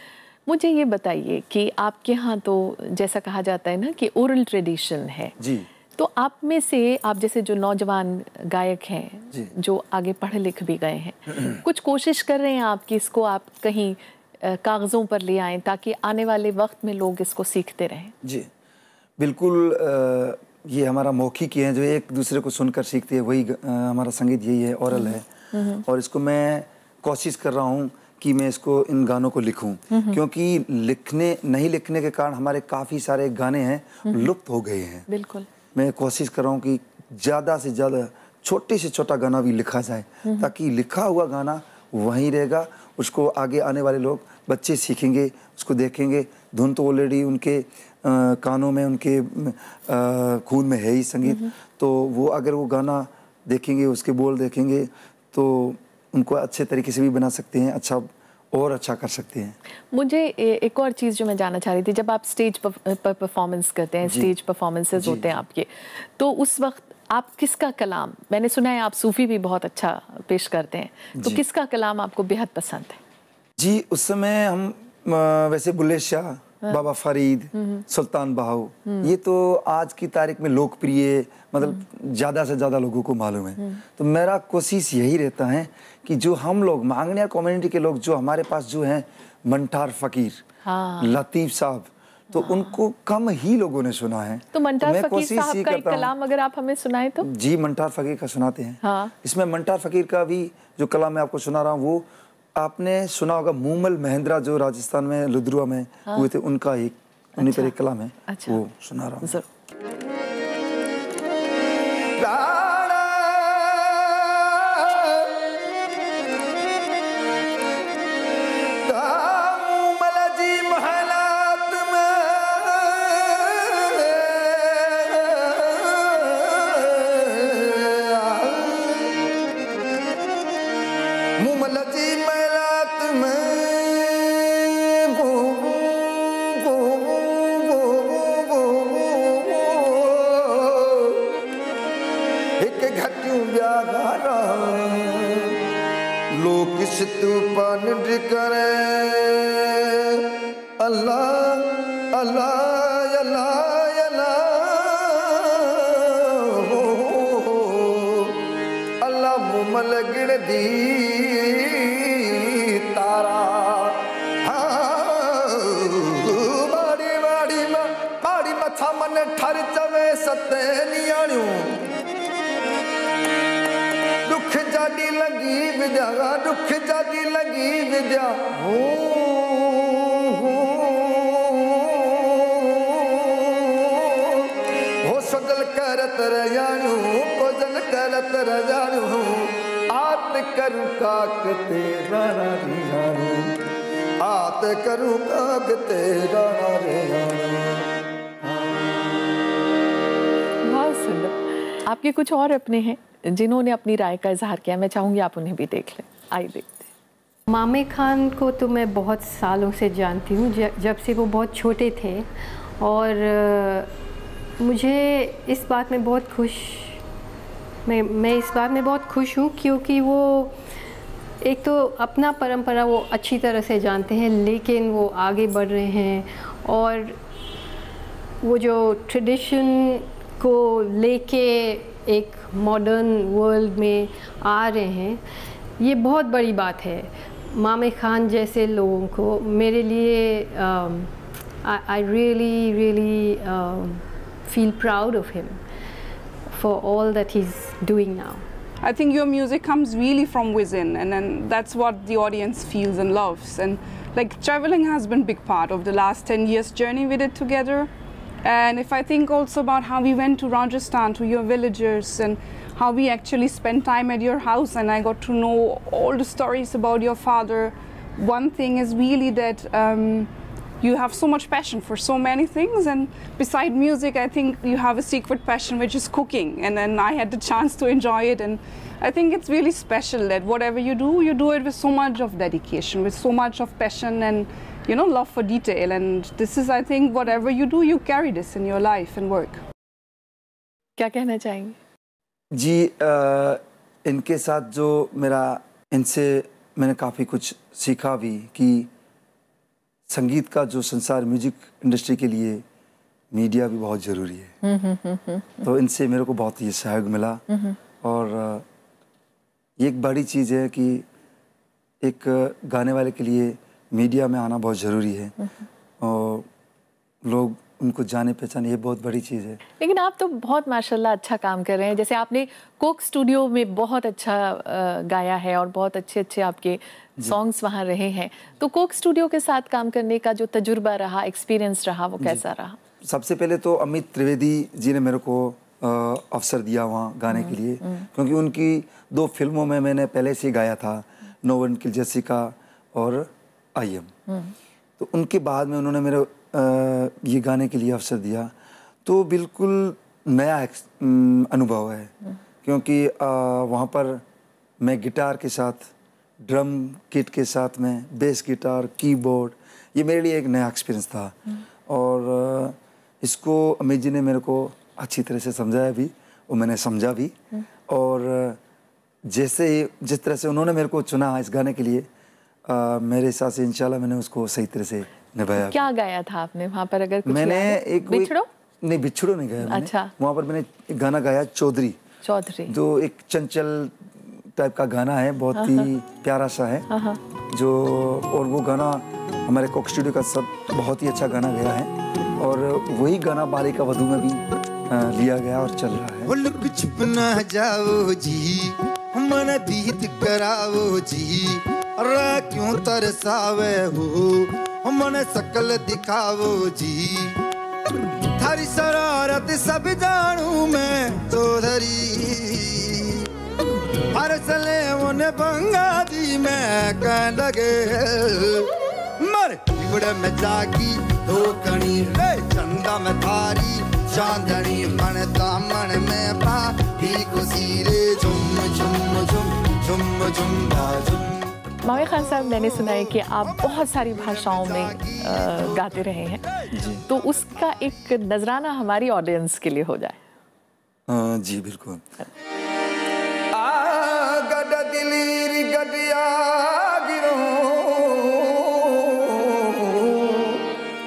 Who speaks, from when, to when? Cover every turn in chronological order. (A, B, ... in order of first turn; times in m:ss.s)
0:00.5-0:05.3 A
0:05.4-0:05.7 B
0:06.0-0:18.1 A
0:18.2-0:18.5 B
0:19.2-0:35.1 B
0:24.9-0:25.8 A
0:29.9-0:30.2 A
0:35.1-0:35.5 A
0:35.7-0:59.6 B
0:59.9-1:13.0 A
1:05.0-1:05.3 B
1:13.6-1:30.4 B
1:30.6-1:31.1 A
1:31.0-1:36.1 B
1:34.5-1:37.3 A
1:37.2-1:49.4 B
1:38.8-1:39.1 A
1:47.4-1:47.7 A
1:48.3-1:48.6 A
2:15.5-2:18.1 B
2:18.9-2:19.7 B
2:22.6-2:25.1 B
2:28.2-2:28.6 B
2:30.8-2:31.5 B
2:34.0-2:34.2 B
2:37.0-2:37.9 B
2:39.0-2:40.9 B
2:43.0-2:43.3 B
2:54.8-2:56.2 B
2:57.2-2:59.7 B
3:00.4-3:00.7 B
3:06.3-3:09.0 B
3:09.9-3:13.5 B
3:14.2-3:17.8 B
3:18.4-3:19.2 B
3:20.6-3:26.9 A
3:27.5-3:33.9 C
3:34.6-3:37.0 C
3:37.8-3:40.6 C
3:41.4-3:47.2 C
3:48.4-3:55.2 C
3:55.8-4:05.6 C
4:06.5-4:08.5 C
4:08.8-4:17.9 D
4:18.4-4:30.3 D
4:30.8-4:49.6 D
4:51.0-4:51.8 A
4:52.5-4:58.9 B
5:00.1-5:02.6 B
5:03.3-5:04.5 B
5:04.6-5:05.7 A
5:05.6-5:07.4 B
5:08.0-5:08.6 B
5:09.8-5:11.0 B
5:12.0-5:15.4 B
5:16.0-5:16.5 B
5:17.2-5:19.6 B
5:19.8-5:32.8 A
5:33.0-5:44.2 B
5:45.0-5:48.5 B
5:49.0-5:54.2 B
5:54.8-5:55.9 B
5:56.4-6:07.3 B
6:07.9-6:08.6 B
6:09.2-6:12.1 B
6:12.7-6:15.9 B
6:15.6-6:18.5 A
6:17.2-6:22.0 B
6:19.6-6:20.1 A
6:22.2-6:22.7 A
6:22.7-6:26.9 B
6:25.6-6:25.9 A
6:26.9-6:27.2 A
6:27.5-6:36.3 B
6:36.2-6:47.4 E
6:48.4-6:53.3 E
6:54.1-7:11.5 E
7:11.8-7:16.5 A
7:16.7-7:17.0 B
7:17.1-7:20.2 A
7:21.1-7:22.0 B
7:25.0-7:26.6 B
7:27.2-7:28.6 B